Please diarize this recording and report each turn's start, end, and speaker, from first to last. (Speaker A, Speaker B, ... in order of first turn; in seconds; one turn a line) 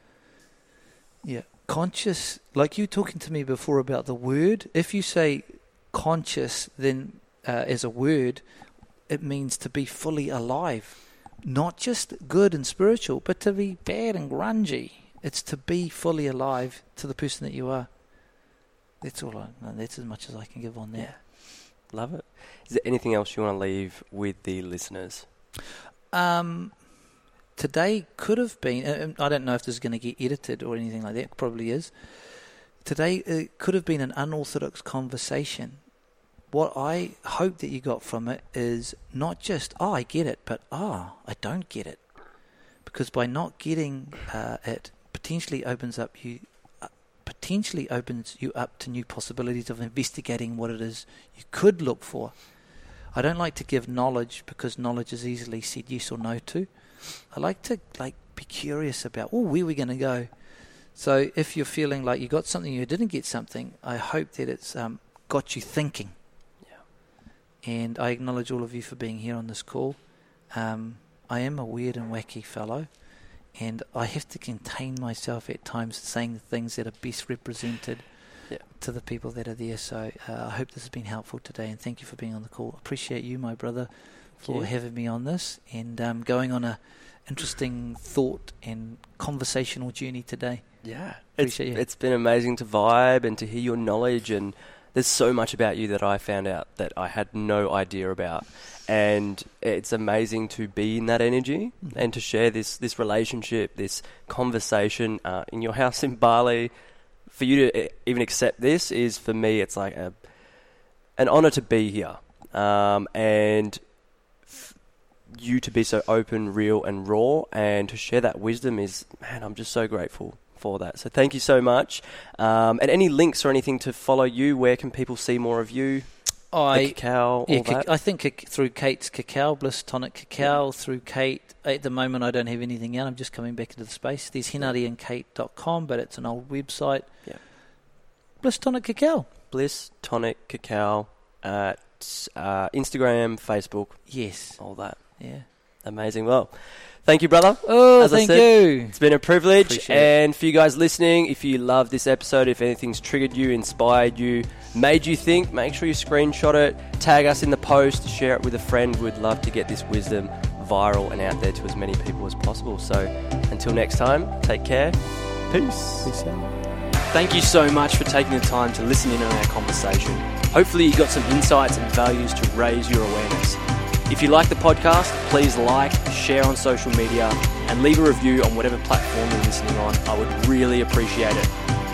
Speaker A: 1.2-8.4
Speaker A: 9.1-18.1
Speaker A: 19.0-21.2
Speaker B: 20.9-25.2
Speaker A: 26.1-26.9
Speaker A: 27.6-35.8
Speaker A: 36.5-66.1
Speaker A: 67.6-91.8
Speaker B: 84.4-84.7
Speaker B: 90.8-127.9
Speaker A: 126.5-137.5
Speaker A: 138.4-139.3
Speaker B: 139.5-166.1
Speaker A: 144.1-145.4
Speaker A: 147.6-150.1
Speaker A: 166.0-166.6
Speaker C: 167.1-181.5